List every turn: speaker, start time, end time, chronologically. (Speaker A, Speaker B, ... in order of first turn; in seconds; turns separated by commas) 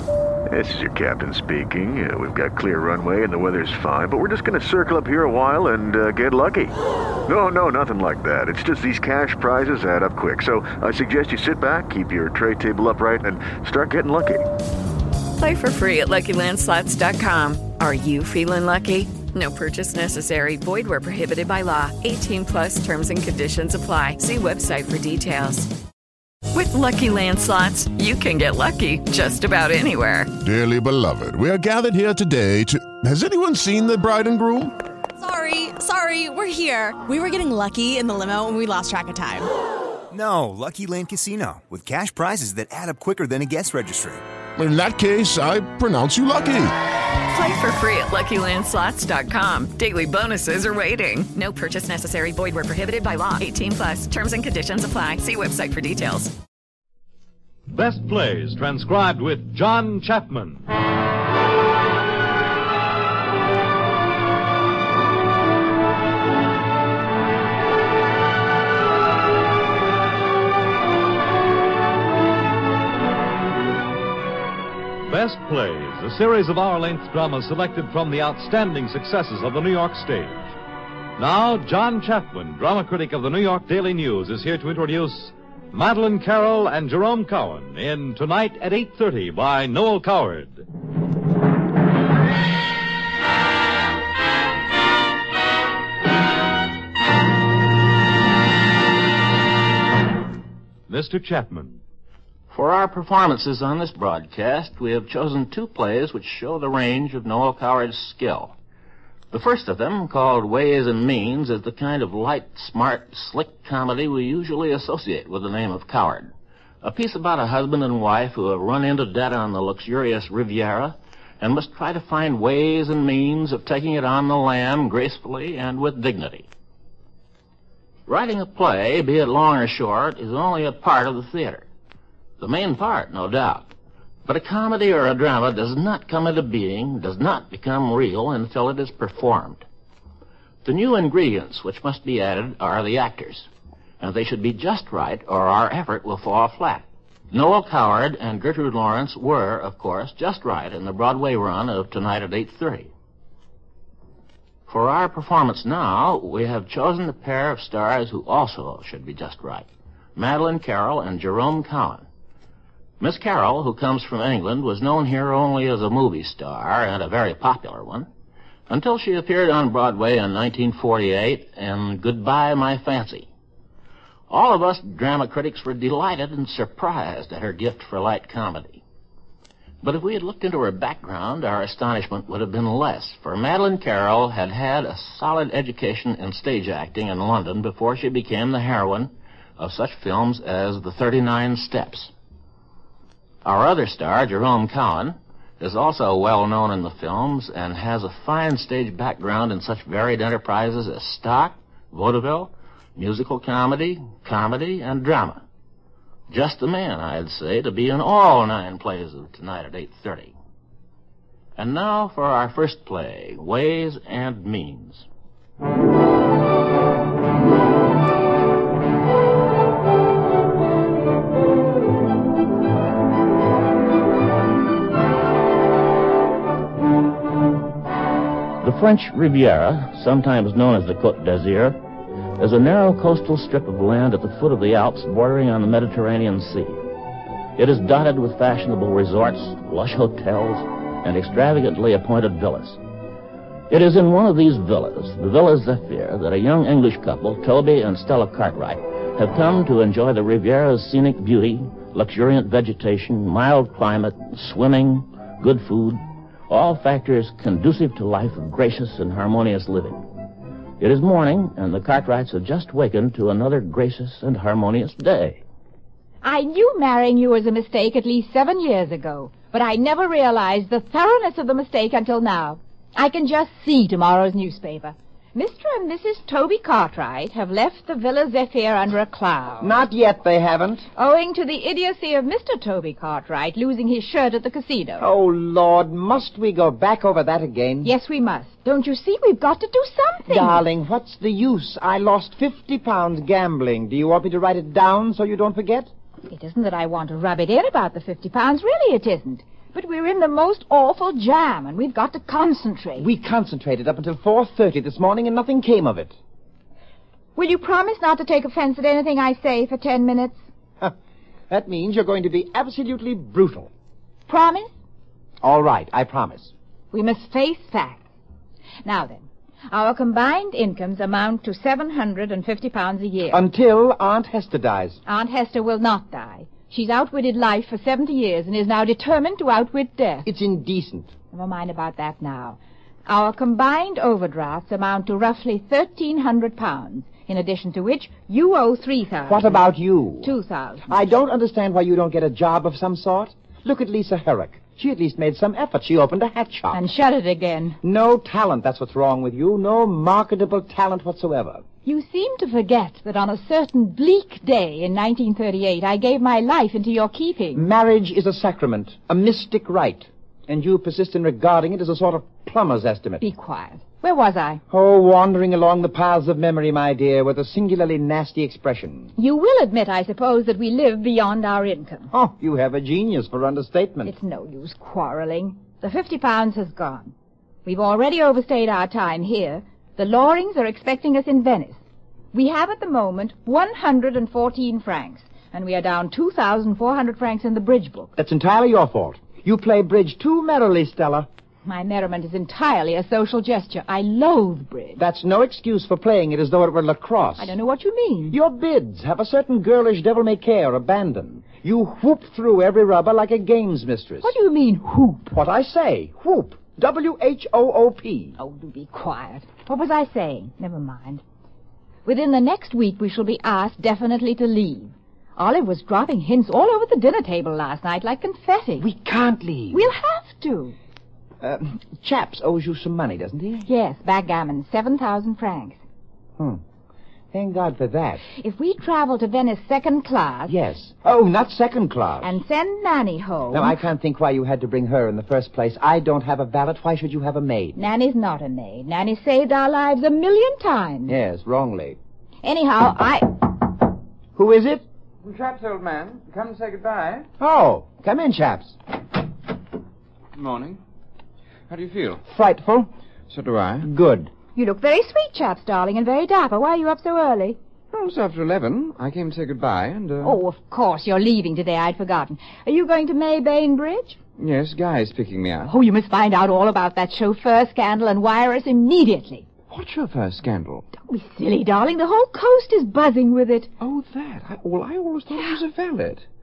Speaker A: 0.5-6.7, Speaker A: 7.3-14.4, Speaker B: 15.4-25.7, Speaker B: 26.5-30.3, Speaker C: 30.4-34.7, Speaker D: 35.2-39.5, Speaker E: 40.1-44.2, Speaker C: 44.6-46.8, Speaker B: 47.3-56.3, Speaker F: 57.7-60.6, Speaker F: 75.0-80.4, Speaker F: 81.2-90.6, Speaker F: 100.9-101.8, Speaker G: 102.5-108.5, Speaker G: 109.3-126.5, Speaker G: 128.1-131.7, Speaker G: 132.4-133.7, Speaker G: 134.2-139.6, Speaker G: 140.6-143.5, Speaker G: 144.0-152.9, Speaker G: 154.7-162.1, Speaker G: 163.0-168.1, Speaker G: 168.7-173.3, Speaker G: 174.3-178.8, Speaker G: 179.8-192.1, Speaker G: 193.4-205.4, Speaker G: 206.3-210.3, Speaker G: 211.6-215.1, Speaker G: 228.6-231.8, Speaker G: 232.4-236.8, Speaker G: 237.6-242.8, Speaker G: 243.7-260.0, Speaker G: 260.8-265.4, Speaker H: 266.2-279.8, Speaker I: 279.6-280.9, Speaker H: 280.9-285.1, Speaker I: 285.0-287.9, Speaker H: 287.8-290.6, Speaker I: 290.3-295.9, Speaker H: 296.3-303.1, Speaker I: 303.0-306.1, Speaker H: 307.4-310.4, Speaker I: 311.5-313.7, Speaker H: 314.3-314.7, Speaker I: 315.4-316.5, Speaker H: 316.9-318.1, Speaker H: 318.8-323.4, Speaker I: 323.3-325.0, Speaker H: 325.1-330.3, Speaker I: 330.2-331.1, Speaker H: 331.3-339.6, Speaker I: 339.3-340.4, Speaker H: 340.2-340.9, Speaker I: 340.9-346.8, Speaker H: 346.7-347.8, Speaker I: 347.8-351.6, Speaker H: 351.8-357.6, Speaker I: 357.5-363.2, Speaker H: 363.2-364.6, Speaker I: 364.7-369.1, Speaker H: 369.1-372.1, Speaker I: 372.1-374.1, Speaker H: 374.0-377.1, Speaker H: 377.6-381.8, Speaker H: 382.3-388.1, Speaker I: 388.2-391.3, Speaker H: 391.6-395.0, Speaker I: 395.0-397.5, Speaker H: 397.4-398.4, Speaker I: 398.3-404.3, Speaker H: 404.2-405.3, Speaker I: 405.3-408.4, Speaker H: 408.4-411.2, Speaker H: 412.0-418.9, Speaker I: 418.8-419.9, Speaker H: 419.7-420.8, Speaker I: 421.4-423.7, Speaker H: 423.6-425.8, Speaker I: 427.3-428.2, Speaker H: 428.4-430.5, Speaker I: 430.5-432.3, Speaker H: 432.2-433.8, Speaker I: 433.5-437.8, Speaker H: 437.8-441.1, Speaker I: 441.1-442.0, Speaker H: 442.4-443.5, Speaker I: 444.3-444.8, Speaker J: 445.2-447.3, Speaker I: 447.4-448.8, Speaker J: 450.3-450.8, Speaker J: 451.7-452.2, Speaker I: 452.2-452.9, Speaker J: 453.3-453.9, Speaker I: 453.8-454.3, Speaker H: 454.5-457.6, Speaker J: 457.9-460.4, Speaker H: 460.2-464.2, Speaker J: 464.4-465.7, Speaker H: 465.7-469.4, Speaker J: 469.7-470.8, Speaker H: 470.9-473.7, Speaker J: 473.8-476.2